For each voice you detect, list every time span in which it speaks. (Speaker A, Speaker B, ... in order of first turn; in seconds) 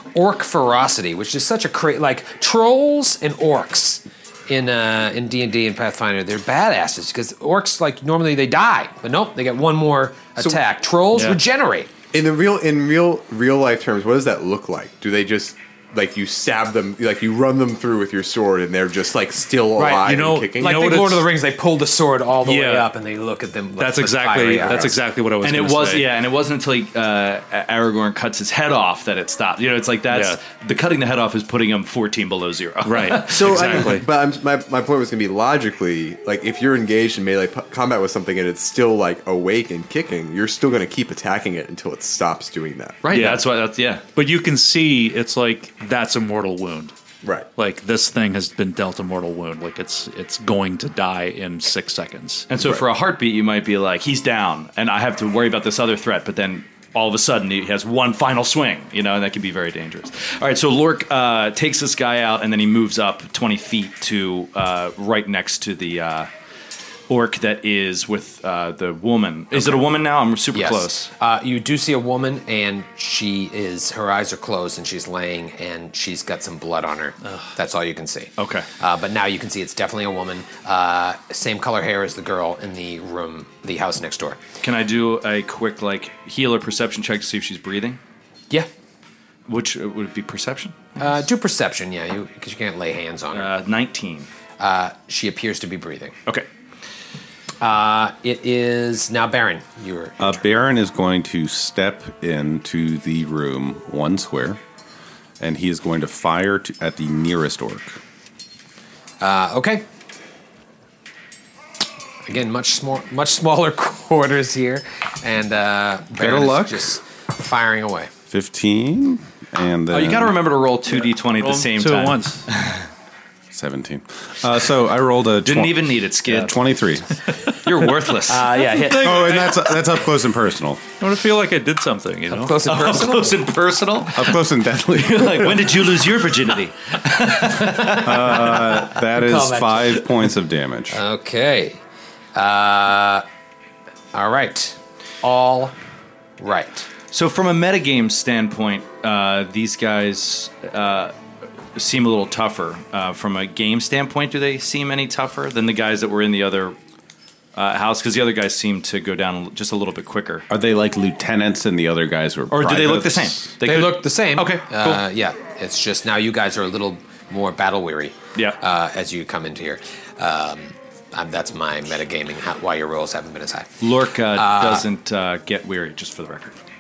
Speaker A: 0.1-11.9, 19.8-24.9, 69.5-69.9, 70.5-84.4, 91.0-93.5, 94.6-96.2, 97.6-100.4, 109.2-109.9, 112.2-118.1, 128.3-129.5, 132.3-133.4, 137.4-140.3, 140.9-141.8, 142.3-143.2, 144.1-145.8, 146.4-146.9, 163.6-174.9
Speaker B: 11.1-11.4, 20.0-21.3, 22.4-22.9, 23.8-26.1, 30.1-30.4, 32.9-34.1, 43.1-43.5, 44.1-46.9, 47.6-52.5, 121.4-122.5, 131.0-132.6
Speaker C: 12.1-20.9, 24.6-24.9, 33.3-43.1, 47.2-47.5, 52.6-52.8
Speaker D: 25.4-34.1, 43.0-44.0, 52.5-66.3, 67.1-71.1, 78.4-78.7, 84.6-88.0, 89.5-91.1, 93.3-94.3, 119.9-122.9, 125.4-126.6, 127.5-128.5, 132.7-134.4, 135.0-138.4, 147.1-151.1, 151.8-156.8, 157.6-160.4, 162.5-165.0, 173.8-176.6
Speaker E: 100.2-104.6, 105.4-108.0, 116.1-116.9, 118.3-120.4, 123.5-127.1, 128.9-130.8, 134.1-135.8, 138.0-141.0, 160.5-163.5